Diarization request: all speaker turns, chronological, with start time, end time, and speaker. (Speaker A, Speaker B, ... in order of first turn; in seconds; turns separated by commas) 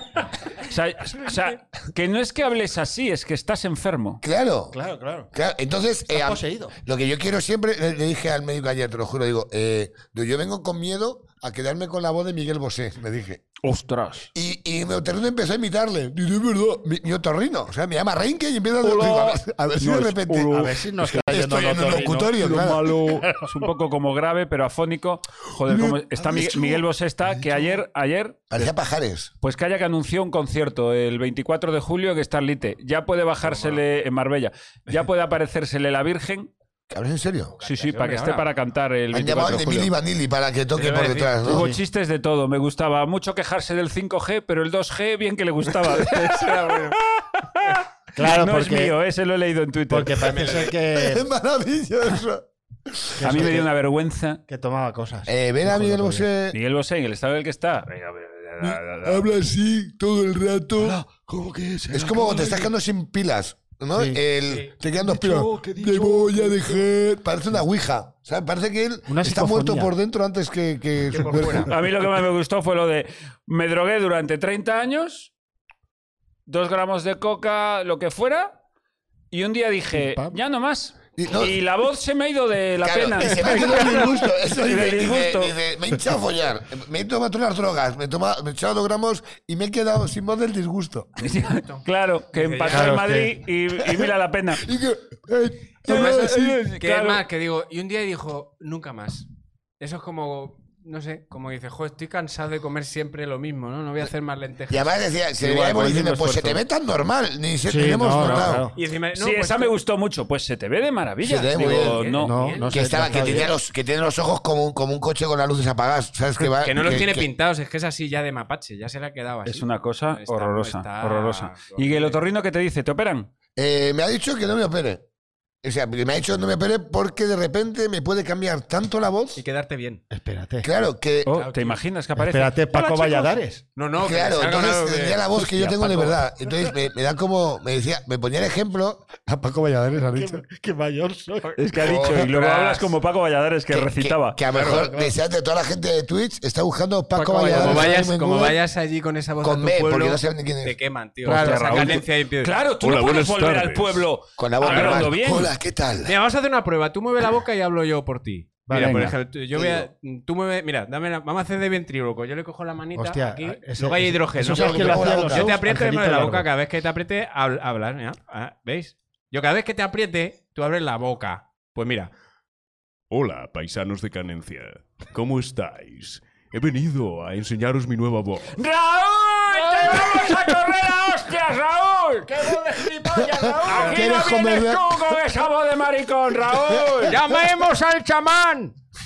Speaker A: 0.6-4.2, Speaker B: 4.2-4.8, Speaker C: 4.7-5.3, Speaker B: 5.3-13.4, Speaker C: 6.1-6.7, Speaker A: 13.6-14.3, Speaker B: 14.3-23.1, Speaker A: 18.8-21.2, Speaker C: 20.4-23.5, Speaker A: 22.5-28.5, Speaker B: 25.6-26.9, Speaker B: 28.5-29.3, Speaker A: 29.4-36.5, Speaker D: 33.4-33.8, Speaker B: 36.9-37.5, Speaker D: 37.6-38.5, Speaker A: 37.6-39.9, Speaker B: 39.1-41.7, Speaker D: 40.7-41.4, Speaker A: 41.4-46.5, Speaker C: 41.5-41.8, Speaker D: 45.8-47.0, Speaker A: 47.2-50.3, Speaker C: 48.1-49.0, Speaker C: 49.9-51.3, Speaker D: 50.2-50.7, Speaker B: 50.9-53.5, Speaker C: 53.2-53.7, Speaker A: 53.2-54.4, Speaker C: 54.5-56.3, Speaker B: 55.3-56.6, Speaker A: 56.5-59.3, Speaker B: 58.6-61.4, Speaker B: 61.9-71.7, Speaker C: 61.9-62.7, Speaker C: 63.9-64.2, Speaker D: 64.5-64.7, Speaker C: 65.0-66.7, Speaker E: 66.3-66.6, Speaker C: 69.1-69.9, Speaker D: 71.1-71.7, Speaker A: 71.7-75.3, Speaker A: 76.5-78.6, Speaker A: 79.3-85.5, Speaker C: 79.9-80.4, Speaker B: 81.2-81.5, Speaker B: 82.8-91.2, Speaker A: 91.2-94.7, Speaker D: 91.4-93.0, Speaker C: 92.7-93.4, Speaker B: 94.6-96.6, Speaker A: 95.8-97.2, Speaker D: 95.8-99.3, Speaker D: 99.8-104.9, Speaker B: 104.7-108.7, Speaker A: 105.4-106.6, Speaker C: 107.7-108.7, Speaker D: 108.2-109.8, Speaker A: 109.2-112.4, Speaker B: 111.2-112.0, Speaker D: 111.5-113.4, Speaker C: 112.2-113.5, Speaker B: 112.7-117.3, Speaker D: 116.5-122.2, Speaker A: 119.5-123.3, Speaker B: 123.5-125.0, Speaker B: 125.6-129.4, Speaker D: 129.3-130.0, Speaker C: 130.1-130.7, Speaker B: 130.6-131.3, Speaker A: 131.2-133.3, Speaker D: 131.3-131.8, Speaker C: 132.2-133.6, Speaker D: 133.8-135.3, Speaker B: 134.0-140.4, Speaker A: 135.4-136.1, Speaker C: 139.9-141.5, Speaker A: 141.6-144.4, Speaker B: 141.8-142.3, Speaker D: 142.1-142.9, Speaker B: 143.7-148.6, Speaker D: 144.5-144.9, Speaker C: 144.5-145.1, Speaker C: 147.2-148.0, Speaker D: 147.2-152.6, Speaker B: 149.4-150.8, Speaker C: 151.2-152.0, Speaker A: 151.2-155.5, Speaker E: 152.8-154.0, Speaker B: 154.4-156.1, Speaker D: 154.6-155.1, Speaker D: 156.0-172.1, Speaker C: 158.7-159.1, Speaker A: 158.7-159.1, Speaker B: 159.5-159.9, Speaker C: 162.9-166.4, Speaker B: 164.5-165.6, Speaker E: 173.1-178.6, Speaker A: 178.5-187.2, Speaker D: 179.5-180.5, Speaker B: 183.2-185.2, Speaker D: 183.7-184.1, Speaker B: 186.7-187.0, Speaker D: 187.1-188.7